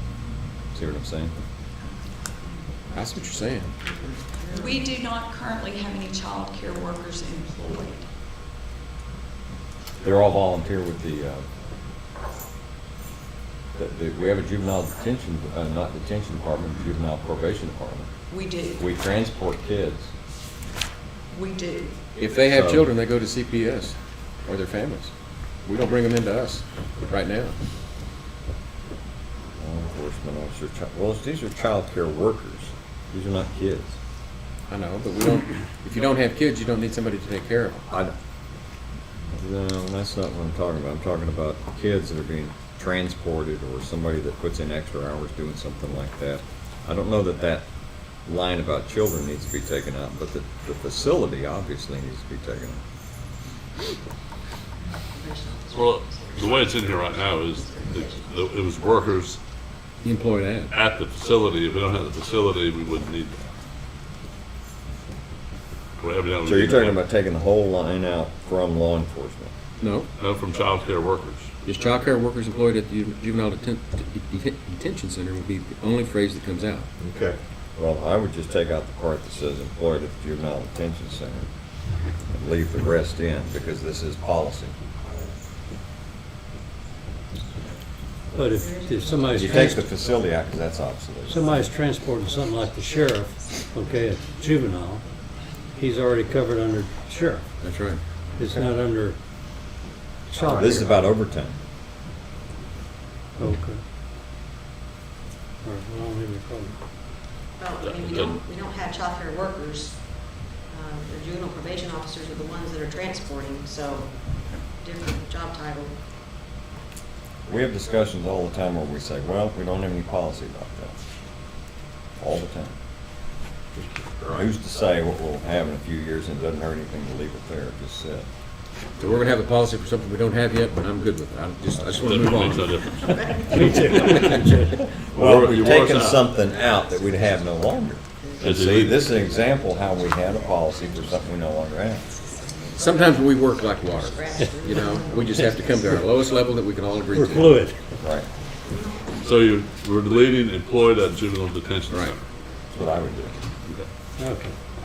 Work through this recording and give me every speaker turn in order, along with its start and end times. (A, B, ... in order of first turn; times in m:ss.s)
0:00.7-0:01.3 A
0:02.9-0:03.7 B
0:03.8-0:04.9 C
0:04.5-0:08.0 D
0:10.0-0:11.4 A
0:13.7-0:18.1 A
0:18.3-0:18.8 D
0:18.7-0:20.1 A
0:21.3-0:22.0 D
0:22.2-0:25.1 B
0:22.5-0:22.9 A
0:25.6-0:27.5 B
0:29.6-0:34.0 A
0:34.7-0:37.8 B
0:39.3-0:47.6 A
0:48.2-0:52.8 A
0:55.1-0:58.3 C
0:55.7-0:59.4 E
1:00.0-1:00.7 B
1:00.7-1:03.4 E
1:06.0-1:07.0 E
1:06.4-1:09.5 A
1:09.8-1:10.1 B
1:10.2-1:11.6 E
1:11.6-1:16.9 B
1:17.1-1:21.5 A
1:22.3-1:24.7 A
1:28.3-1:29.9 F
1:28.5-1:29.6 C
1:29.3-1:31.4 A
1:31.3-1:35.0 F
1:35.8-1:37.4 F
1:37.6-1:38.0 B
1:38.4-1:39.2 F
1:38.4-1:38.7 A
1:40.3-1:41.0 F
1:40.4-1:41.6 A
1:43.4-1:43.8 F
1:45.6-1:46.7 F
1:47.6-1:56.0 C
1:47.8-1:48.4 E
1:57.5-2:00.9 A
2:02.2-2:02.7 A
2:04.2-2:08.3 A
2:09.0-2:14.6 B
2:11.9-2:13.8 E
2:13.0-2:14.2 C
2:13.5-2:14.8 F
2:14.7-2:22.1 A
2:15.1-2:16.3 E
2:18.2-2:18.5 C
2:18.4-2:19.1 E
2:22.6-2:26.1 C
2:22.8-2:27.6 B
2:27.1-2:27.8 F
2:28.0-2:28.3 A
2:28.7-2:29.1 C
2:29.2-2:32.2 E
2:31.9-2:32.2 B
2:32.7-2:33.4 A
2:34.2-2:34.6 F